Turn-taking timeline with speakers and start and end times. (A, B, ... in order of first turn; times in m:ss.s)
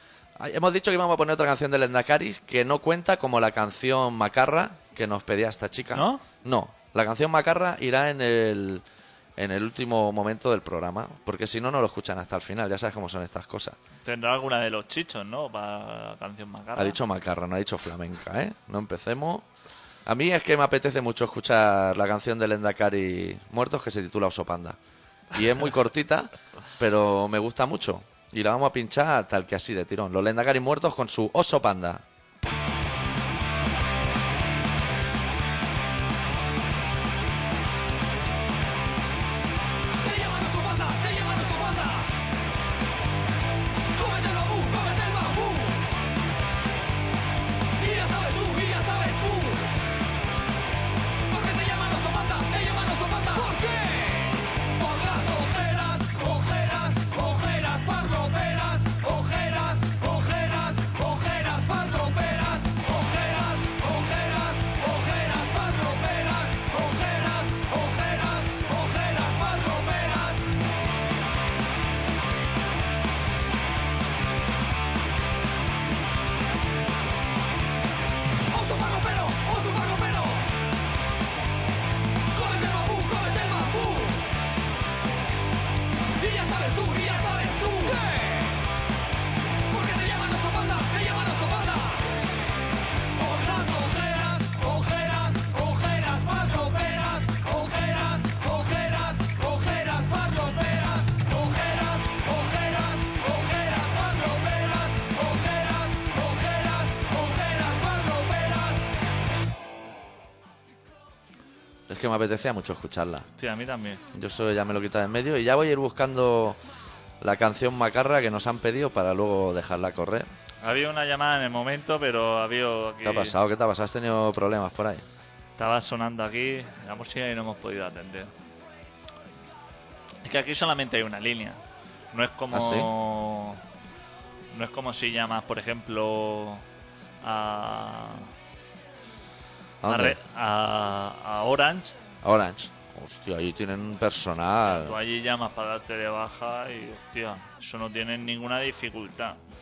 0:00.4-0:08.8 A
0:05.9-0:06.2 B
0:09.4-0:13.8 A
0:14.0-0:17.0 B
0:16.8-0:19.5 A
0:20.1-0:24.8 A
0:25.3-0:32.0 A
0:41.2-0:41.8 C
0:44.1-0:45.6 C
0:47.9-0:49.6 C
0:51.4-1:10.5 C
1:18.6-1:20.2 C
1:22.6-1:24.1 C
1:27.4-1:27.8 C
1:30.6-1:31.5 C
1:33.4-1:48.9 C
1:51.9-1:53.3 A
1:53.4-1:54.0 B
1:54.1-1:56.6 A
1:57.2-2:00.3 A
2:00.6-2:03.4 B
2:03.0-2:05.0 A
2:05.6-2:08.3 B
2:10.2-2:11.6 B
2:12.1-2:13.6 B
2:12.5-2:12.9 A
2:14.5-2:16.6 B
2:17.2-2:18.3 B
2:19.8-2:20.2 A
2:19.9-2:22.0 B
2:22.2-2:25.0 A
2:24.6-2:29.4 B